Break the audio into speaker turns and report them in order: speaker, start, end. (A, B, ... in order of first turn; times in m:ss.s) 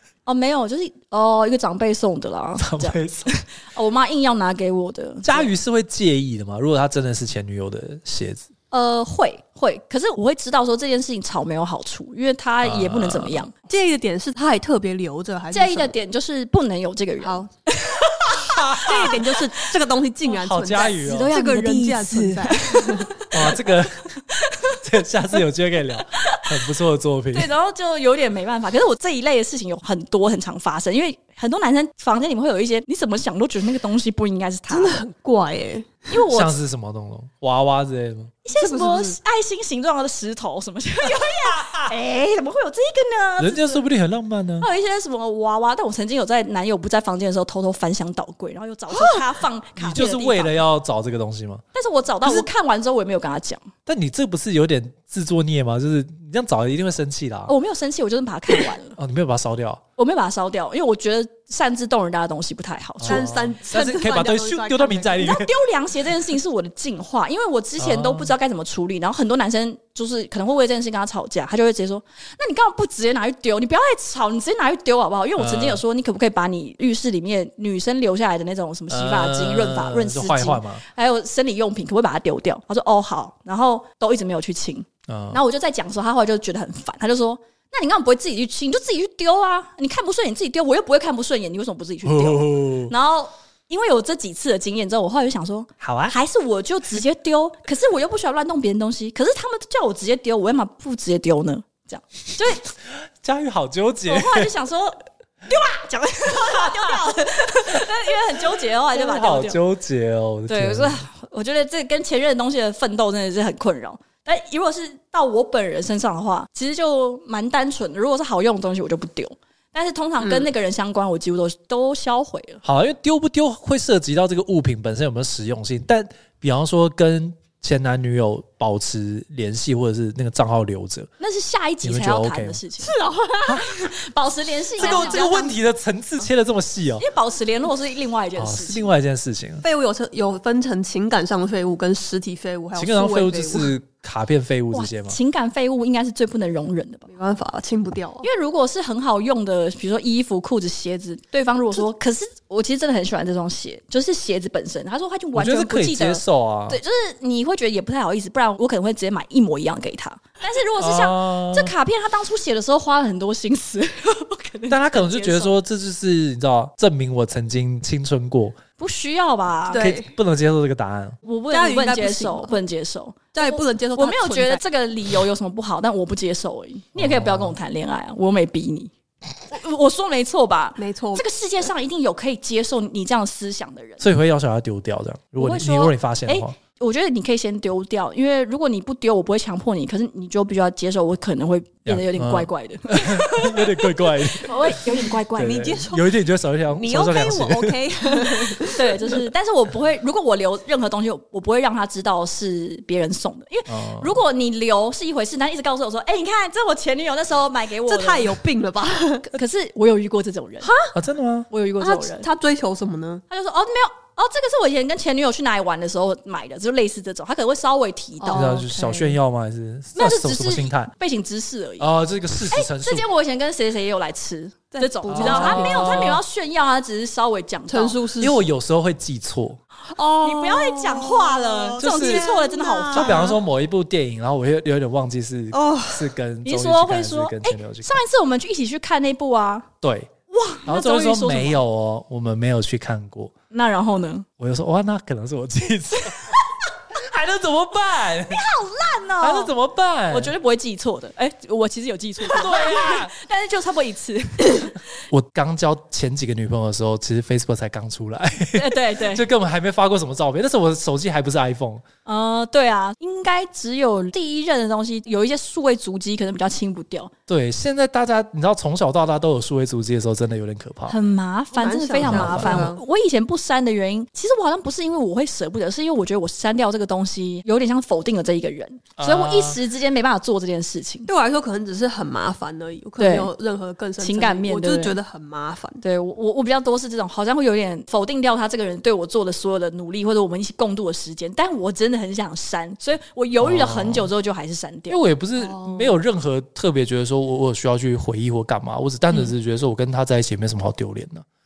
0:00.2-0:05.5 A
0:02.6-0:03.3 B
0:05.2-0:08.5 B
0:08.7-0:13.5 A
0:12.6-0:13.4 B
0:13.7-0:15.9 C
0:15.5-0:19.4 A
0:17.2-0:17.5 C
0:18.4-0:19.2 B
0:18.8-0:23.3 C
0:20.3-0:21.4 B
0:20.8-0:23.6 A
0:23.3-0:24.1 B
0:24.3-0:24.8 A
0:24.7-0:27.5 B
0:26.1-0:26.5 A
0:27.3-0:35.0 A
0:34.7-0:36.1 C
0:36.1-0:36.6 A
0:36.3-0:38.3 B
0:38.4-0:43.8 A
0:38.6-0:39.2 C
0:41.1-0:41.9 B
0:43.4-0:44.7 B
0:44.6-0:50.6 A
0:49.8-0:51.6 B
0:51.7-0:53.7 A
0:53.9-0:57.5 B
0:57.5-0:59.0 A
0:59.0-0:59.8 B
1:00.0-1:03.3 A
1:03.0-1:05.5 B
1:03.0-1:05.3 C
1:05.2-1:42.6 A
1:07.8-1:08.3 B
1:15.4-1:15.8 B
1:18.9-1:20.8 B
1:25.1-1:25.4 B
1:32.0-1:32.9 B
1:35.8-1:36.1 B
1:42.9-1:44.5 B
1:44.1-1:49.6 A
1:46.5-1:46.7 B
1:48.9-1:51.0 B
1:50.5-2:02.6 A
2:00.2-2:00.5 C
2:02.6-2:11.1 B
2:11.2-2:12.9 A
2:11.8-2:12.6 B
2:12.8-2:13.7 C
2:13.6-2:15.5 A
2:14.8-2:17.0 B
2:14.8-2:15.5 C
2:17.0-2:18.9 A
2:18.4-2:19.6 B
2:19.6-2:23.7 C
2:22.8-2:25.2 B
2:24.7-2:27.1 A
2:27.1-2:28.3 C
2:28.2-2:45.5 A
2:35.4-2:36.8 B
2:40.8-2:41.7 B
2:44.7-2:48.6 B
2:48.8-2:49.9 A
2:49.7-2:50.1 C
2:49.8-2:51.2 B
2:51.2-2:58.9 A
2:51.5-2:52.6 C
2:53.3-2:54.6 C
2:57.0-2:57.6 B
2:59.5-3:04.0 A
3:00.8-3:01.2 C
3:04.0-3:06.5 B
3:05.4-3:15.8 A
3:11.9-3:14.8 B
3:15.4-3:17.8 B
3:15.4-3:16.1 C
3:16.7-3:18.9 C
3:18.7-3:28.4 A
3:23.7-3:24.2 B
3:27.8-3:29.2 C
3:29.2-3:30.7 A
3:30.6-3:31.0 C
3:30.9-3:31.5 B
3:31.5-3:32.3 A
3:31.8-3:33.2 C
3:33.3-3:38.7 A
3:38.2-3:39.1 C
3:38.3-3:40.9 B
3:39.9-3:41.9 A
3:41.8-3:43.0 B
3:42.5-3:48.0 A
3:44.7-3:46.2 C
3:45.1-3:46.2 B
3:47.7-3:48.4 C
3:48.2-3:49.6 B
3:49.9-3:53.4 C
3:50.2-3:53.4 A
3:51.8-3:52.3 B
3:52.9-3:58.0 B
3:55.5-3:56.1 C
3:56.4-3:59.7 A
3:59.8-4:00.1 B
4:00.3-4:01.6 A
4:00.6-4:03.3 B
4:03.5-4:04.3 A
4:04.4-4:06.4 B
4:06.9-4:08.4 B
4:08.3-4:09.5 A
4:09.2-4:10.3 B
4:10.1-4:14.8 A
4:12.2-4:13.1 B
4:15.1-4:21.8 B
4:18.6-4:19.2 A
4:22.1-4:27.1 A
4:27.3-4:30.9 B
4:30.9-4:41.1 A
4:31.6-4:32.8 C
4:32.0-4:32.7 B
4:39.0-4:39.6 B
4:41.1-4:45.8 C
4:43.0-4:43.3 A
4:44.0-4:45.0 A
4:45.8-4:55.0 A
4:53.4-4:54.1 B
4:54.9-5:01.2 B